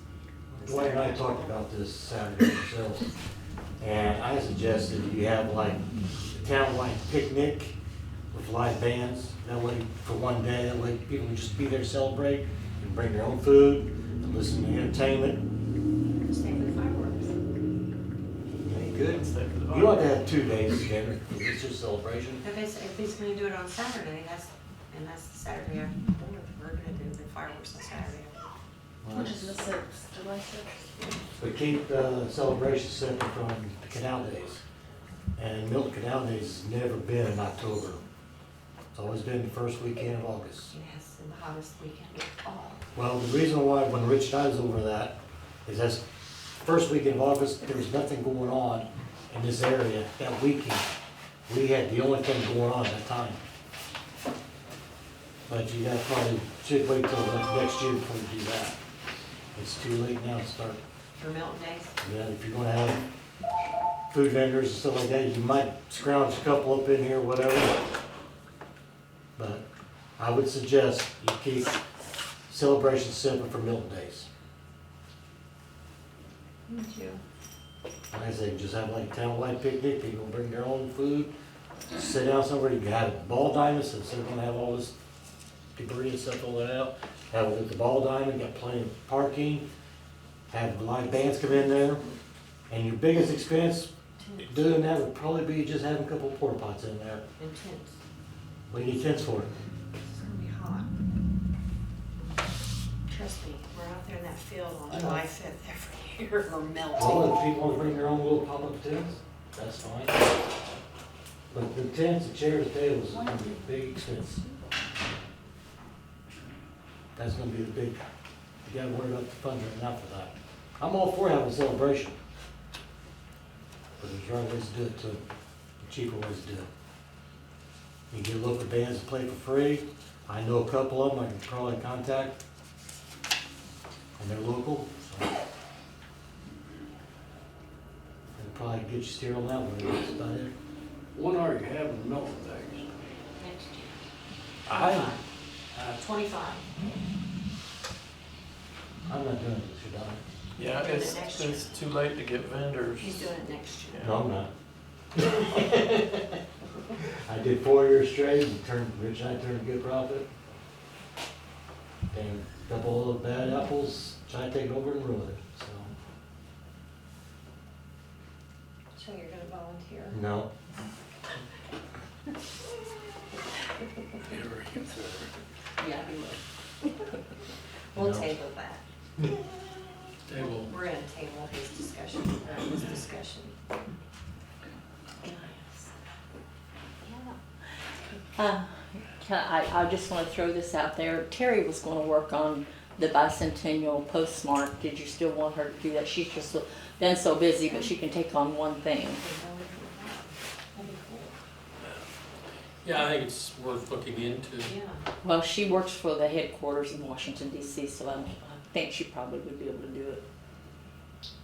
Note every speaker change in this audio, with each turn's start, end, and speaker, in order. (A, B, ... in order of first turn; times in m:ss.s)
0:00.5-0:03.1 A
0:00.5-0:01.6 B
0:03.8-0:07.8 A
0:08.3-0:15.4 A
0:16.2-0:17.4 B
0:18.7-0:22.4 A
0:18.9-0:20.1 C
0:22.4-0:28.3 B
0:29.0-0:29.5 A
0:29.1-0:30.7 D
0:31.4-0:34.6 A
0:35.4-0:38.0 A
0:38.9-0:40.7 A
0:40.7-0:42.8 B
0:42.9-0:50.8 A
0:51.5-0:53.4 A
0:55.5-0:58.8 A
0:59.5-1:00.8 A
1:01.2-1:01.9 B
1:02.0-1:03.0 A
1:04.1-1:07.8 A
1:09.4-1:09.6 A
1:10.2-1:11.8 A
1:12.5-1:14.3 A
1:16.7-1:17.2 B
1:18.1-1:21.3 A
1:21.9-1:24.9 A
1:25.8-1:29.6 A
1:30.5-1:32.0 A
1:32.7-1:37.2 A
1:34.2-1:34.7 B
1:37.4-1:38.0 B
1:38.7-1:39.5 A
1:40.0-1:40.9 B
1:43.1-1:47.3 B
1:44.9-1:45.2 A
1:47.0-1:50.2 A
1:51.5-1:54.4 A
1:57.1-1:58.0 A
1:58.6-2:02.2 A
2:04.0-2:05.2 A
2:05.8-2:06.7 A
2:08.1-2:12.4 A
2:14.2-2:15.3 A
2:18.4-2:20.5 A
2:21.1-2:23.0 E
2:23.4-2:24.0 B
2:24.7-2:25.2 C
2:24.7-2:25.2 B
2:25.7-2:26.0 E
2:25.8-2:26.6 B
2:29.0-2:30.2 A
2:30.6-2:33.3 C
2:30.6-2:31.7 B
2:33.0-2:34.1 B
2:34.0-2:34.5 A
2:35.2-2:36.4 A
2:37.2-2:40.3 A
2:42.1-2:45.9 A
2:49.0-2:50.2 B
2:50.1-2:50.5 A
2:54.3-2:55.3 E
2:55.8-2:56.4 B
2:57.9-2:58.8 B
2:57.9-2:58.3 A
3:00.2-3:00.7 F
3:00.3-3:03.5 B
3:05.2-3:05.9 D
3:07.0-3:07.3 D
3:08.4-3:19.2 D
3:17.6-3:17.9 B
3:19.2-3:21.3 B
3:22.8-3:24.7 F
3:24.6-3:25.0 B
3:25.2-3:30.2 D